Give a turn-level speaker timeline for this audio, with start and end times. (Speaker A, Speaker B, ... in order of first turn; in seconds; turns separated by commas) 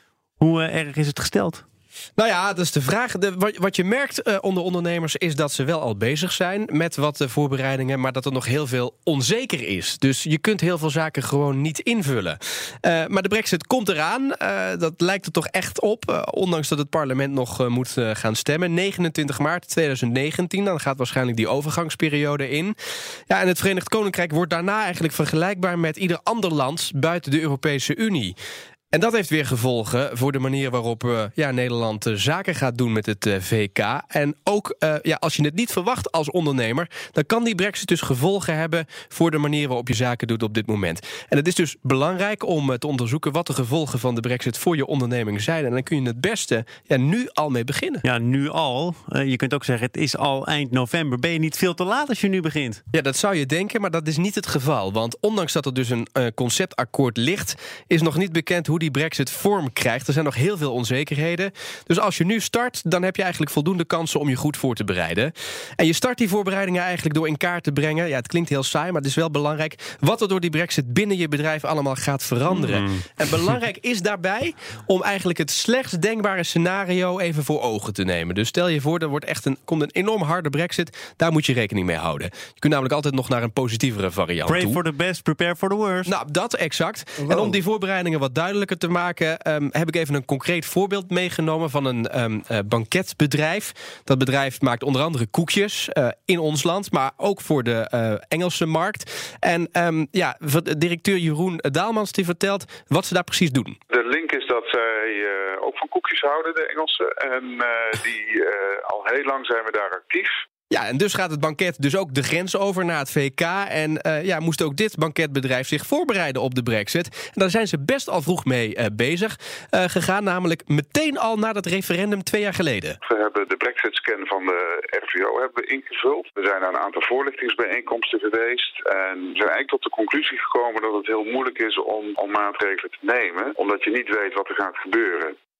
Speaker A: 0.4-1.6, Speaker B: 2.2-22.7, Speaker B: 23.3-28.3, Speaker B: 28.9-48.0, Speaker A: 48.0-52.8, Speaker B: 52.9-84.8, Speaker A: 72.6-73.0, Speaker A: 84.5-86.1, Speaker B: 86.0-103.8, Speaker C: 103.9-110.3, Speaker B: 110.7-123.0, Speaker C: 123.0-135.3